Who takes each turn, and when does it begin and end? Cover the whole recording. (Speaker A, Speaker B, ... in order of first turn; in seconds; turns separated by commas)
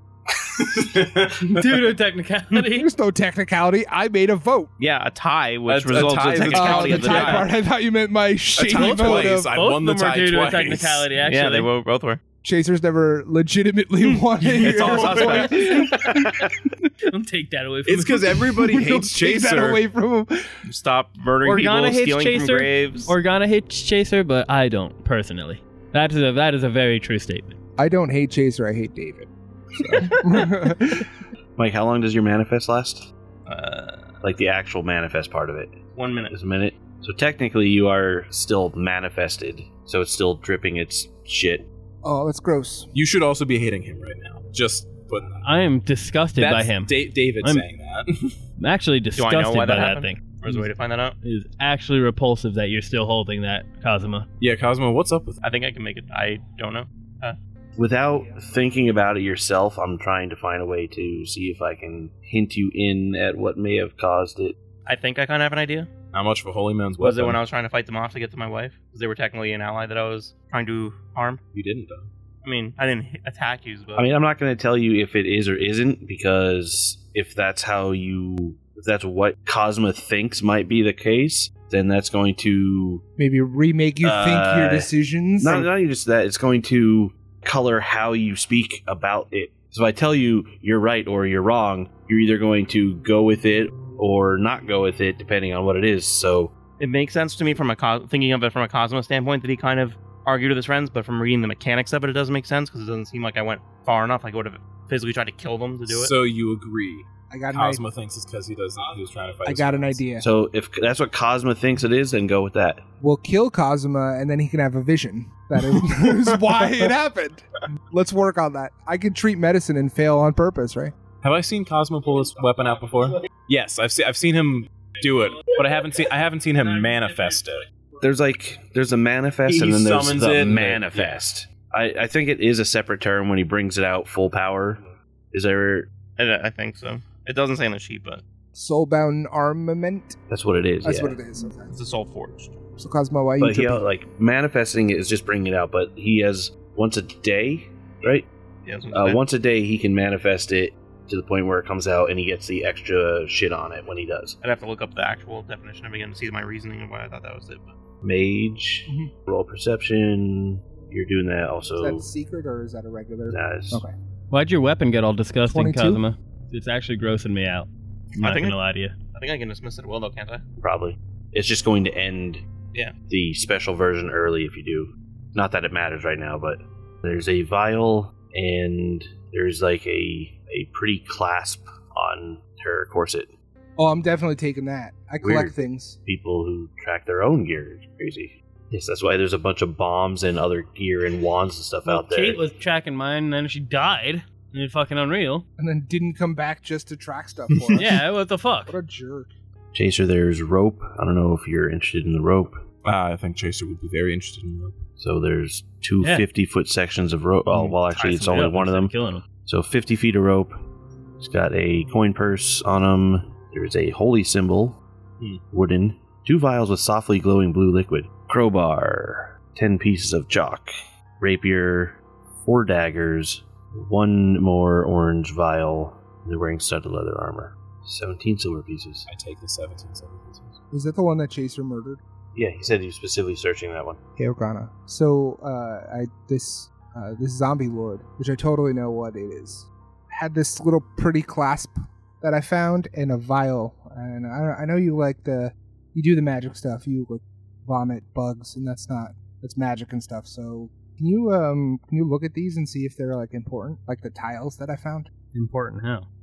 Speaker A: 0.3-1.9, Speaker B: 1.4-2.9, Speaker C: 2.7-4.7, Speaker D: 4.8-7.5, Speaker A: 5.7-7.5, Speaker C: 6.5-9.5, Speaker A: 8.6-11.1, Speaker B: 8.7-11.7, Speaker D: 11.3-12.2, Speaker C: 12.4-16.4, Speaker B: 14.4-15.9, Speaker A: 14.6-15.5, Speaker D: 14.6-16.2, Speaker B: 17.1-18.4, Speaker A: 17.9-19.8, Speaker C: 18.6-20.5, Speaker D: 20.6-23.1, Speaker B: 21.4-27.6, Speaker C: 27.8-31.1, Speaker B: 29.9-30.4, Speaker E: 31.6-33.1, Speaker D: 33.5-34.2, Speaker E: 34.2-35.8, Speaker D: 36.0-36.4, Speaker E: 36.3-41.7, Speaker C: 42.0-42.9, Speaker A: 42.9-45.4, Speaker B: 45.4-47.7, Speaker A: 46.4-48.4, Speaker B: 48.6-50.7, Speaker D: 49.2-51.2, Speaker B: 51.2-54.3, Speaker A: 54.4-55.4, Speaker D: 55.4-57.4, Speaker E: 57.8-64.6, Speaker D: 64.9-65.9, Speaker A: 66.1-67.4, Speaker D: 67.0-71.4, Speaker A: 71.5-72.1, Speaker D: 72.4-74.1, Speaker E: 74.0-83.0, Speaker C: 83.2-85.7, Speaker E: 84.0-96.5, Speaker D: 96.8-106.1, Speaker A: 105.9-110.1, Speaker C: 107.3-107.8, Speaker C: 109.4-110.2, Speaker E: 110.2-112.8, Speaker C: 113.0-120.9, Speaker A: 121.2-127.7, Speaker E: 128.0-135.9, Speaker A: 129.5-131.2, Speaker D: 136.2-138.2, Speaker C: 138.6-140.2, Speaker E: 140.3-141.2, Speaker C: 140.8-141.8, Speaker D: 141.7-142.6, Speaker C: 142.8-143.8, Speaker E: 143.4-148.3, Speaker D: 148.7-149.2, Speaker E: 148.9-154.4, Speaker D: 154.4-157.8, Speaker E: 158.0-162.1, Speaker C: 161.8-163.9, Speaker E: 163.3-163.8, Speaker B: 164.3-169.0, Speaker C: 165.5-166.0, Speaker D: 168.2-168.6, Speaker D: 169.1-170.4, Speaker E: 170.6-172.4, Speaker E: 173.1-183.3, Speaker C: 183.8-186.0, Speaker E: 185.2-192.4, Speaker B: 191.9-195.4, Speaker C: 195.6-197.9, Speaker B: 197.8-198.8, Speaker C: 198.7-199.3, Speaker E: 199.7-202.6, Speaker A: 202.8-204.8, Speaker E: 205.0-210.6, Speaker B: 207.5-209.2, Speaker E: 211.2-214.8, Speaker E: 215.5-229.1, Speaker A: 229.1-230.6, Speaker C: 230.7-232.0, Speaker E: 232.3-234.0, Speaker C: 234.2-255.1, Speaker B: 255.3-256.1